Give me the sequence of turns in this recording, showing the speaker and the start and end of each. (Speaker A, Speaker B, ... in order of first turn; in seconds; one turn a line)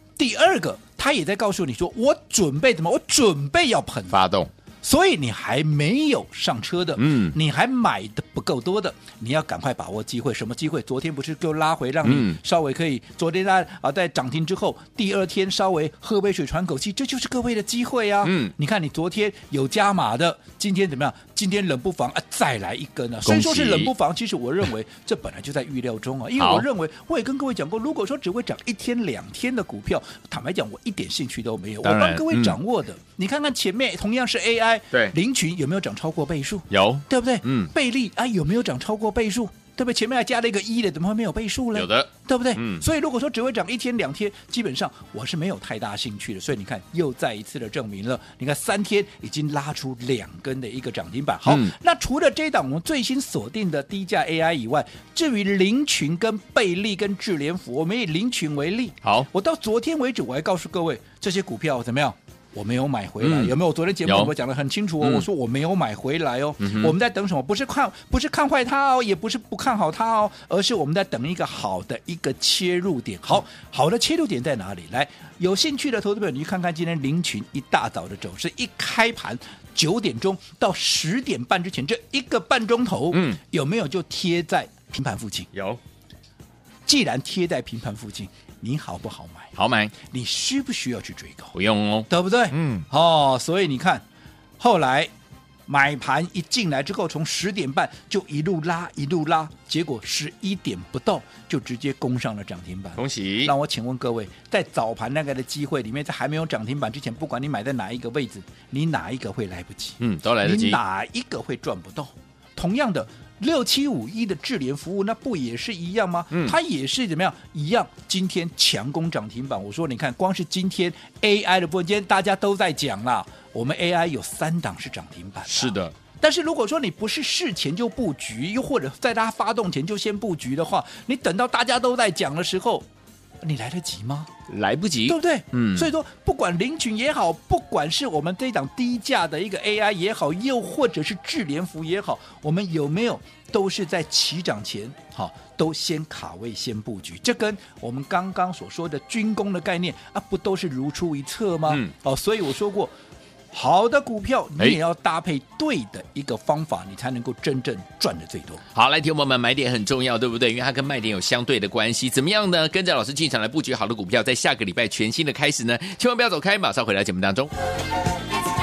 Speaker A: 0.2-4.2
Speaker B: 4.1-4.5
Speaker A: 4.8-85.5
Speaker B: 7.0-7.3
Speaker B: 12.0-12.4
Speaker B: 18.2-18.5
Speaker B: 23.2-23.9
Speaker B: 26.4-26.6
Speaker B: 31.8-32.6
Speaker B: 36.7-37.7
Speaker B: 41.7-42.8
Speaker B: 51.4-51.7
Speaker B: 59.0-59.3
Speaker B: 63.2-64.3
Speaker B: 65.0-65.3
Speaker B: 66.6-67.0
Speaker B: 83.1-83.4
Speaker B: 85.5-85.8
Speaker A: 86.8-91.5
Speaker B: 89.5-89.9
Speaker B: 91.5-92.9
Speaker A: 92.1-94.0
Speaker A: 94.6-95.1
Speaker A: 95.7-132.9
Speaker B: 103.0-103.5
Speaker B: 110.0-110.8
Speaker B: 116.3-116.6
Speaker B: 125.5-125.9
Speaker A: 133.4-134.3
Speaker B: 134.5-135.9
Speaker A: 135.1-152.9
Speaker A: 153.5-158.6
Speaker B: 158.7-167.5